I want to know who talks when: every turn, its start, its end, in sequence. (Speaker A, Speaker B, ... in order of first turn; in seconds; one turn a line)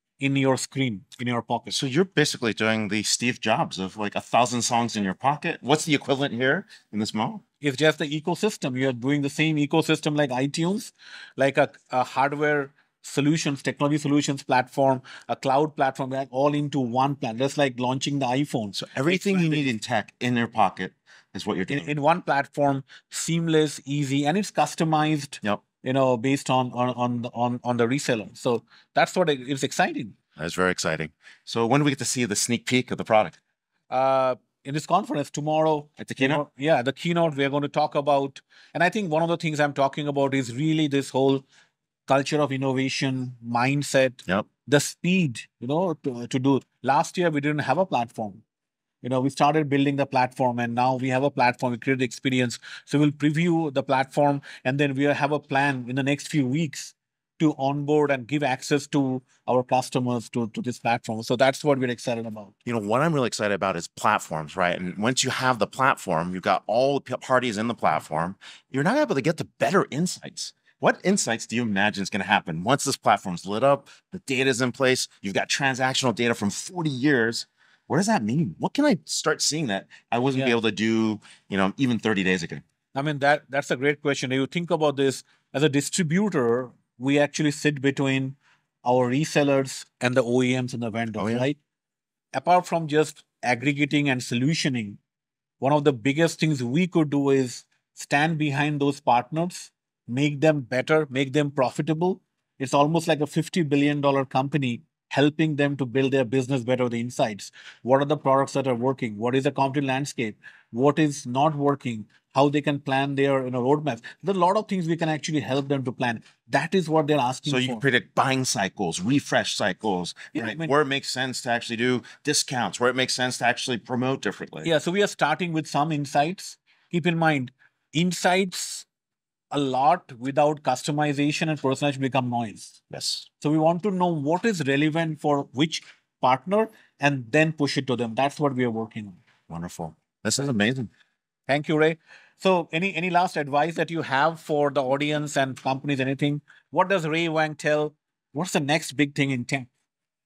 Speaker A: 0.2-1.8
Speaker B: 1.7-7.4
Speaker A: 7.6-19.7
Speaker B: 18.7-21.9
Speaker A: 21.7-30.1
Speaker B: 30.4-33.4
Speaker A: 33.9-41.4
Speaker B: 36.0-36.4
Speaker A: 42.1-48.4
Speaker A: 49.0-62.5
Speaker B: 62.6-82.6
Speaker A: 82.9-91.6
Speaker B: 91.2-91.5
Speaker A: 92.3-95.0
Speaker A: 95.6-117.8
Speaker B: 117.5-124.7
Speaker A: 120.3-120.7
Speaker A: 124.6-128.9
Speaker A: 129.5-132.8
Speaker B: 132.9-133.3
Speaker A: 133.4-139.2
Speaker B: 139.5-140.9
Speaker A: 141.5-149.7